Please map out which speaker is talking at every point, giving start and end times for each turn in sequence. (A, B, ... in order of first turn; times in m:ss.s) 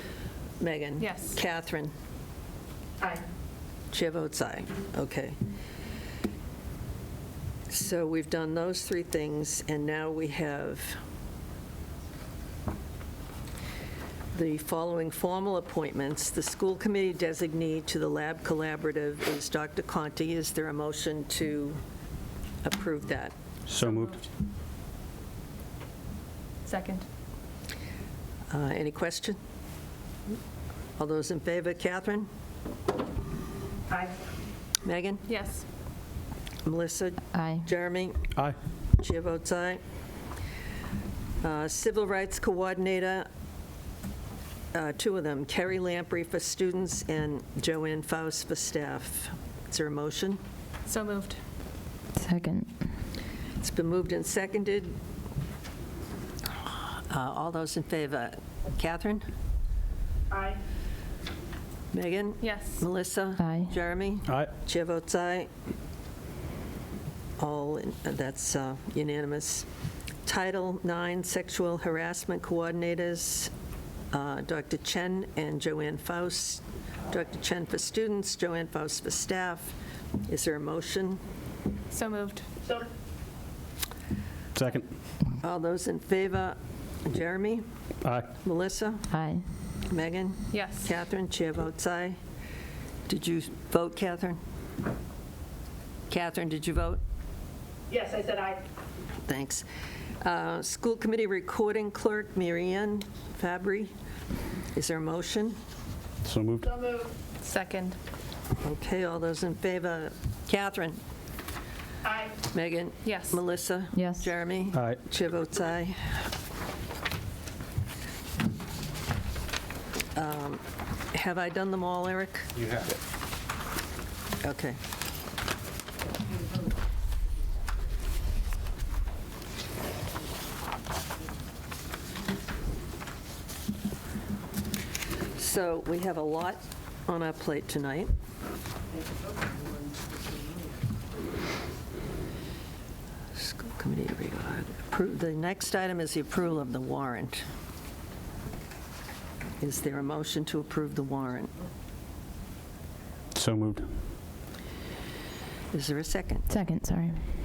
0:00.6-0:01.9 A
0:01.0-0:01.4 B
0:03.9-0:05.4 A
0:07.7-0:11.0 A
0:14.3-0:21.8 A
0:22.6-0:23.4 A
0:23.7-0:24.2 C
0:23.8-0:24.2 B
0:26.6-0:27.1 B
0:28.5-0:29.4 A
0:31.0-0:32.3 A
0:34.8-0:35.2 A
0:35.3-0:35.6 B
0:36.6-0:38.3 A
0:37.3-0:37.6 D
0:39.0-0:39.8 A
0:41.4-0:43.3 A
0:44.7-0:50.4 A
0:50.9-0:51.4 B
0:52.2-0:52.7 D
0:53.6-0:55.0 A
0:57.1-0:59.3 A
1:00.3-1:00.6 E
1:01.9-1:05.5 A
1:02.4-1:02.8 B
1:03.4-1:03.7 D
1:07.4-1:09.7 A
1:10.3-1:13.5 A
1:14.1-1:21.2 A
1:21.9-1:22.4 B
1:24.6-1:24.9 C
1:25.3-1:27.6 A
1:28.0-1:28.3 C
1:28.4-1:29.1 A
1:29.1-1:29.4 D
1:29.8-1:32.2 A
1:30.5-1:30.9 B
1:33.1-1:34.4 A
1:36.1-1:37.0 A
1:37.9-1:38.6 E
1:39.3-1:39.7 A
1:40.2-1:43.9 A
1:44.7-1:45.6 A
1:46.2-1:46.7 C
1:46.6-1:47.1 E
1:47.4-1:48.0 B
1:48.6-1:51.0 A
1:52.0-1:52.4 E
1:52.5-1:56.2 A
1:53.0-1:53.4 B
1:54.0-1:54.3 D
1:54.7-1:55.0 C
2:00.2-2:02.5 A
2:02.6-2:02.9 C
2:04.4-2:04.8 A
2:15.4-2:18.1 A
2:23.4-2:27.4 A
2:29.6-2:31.5 A
2:33.4-2:33.9 C
2:35.7-2:36.6 A
2:36.5-2:37.2 D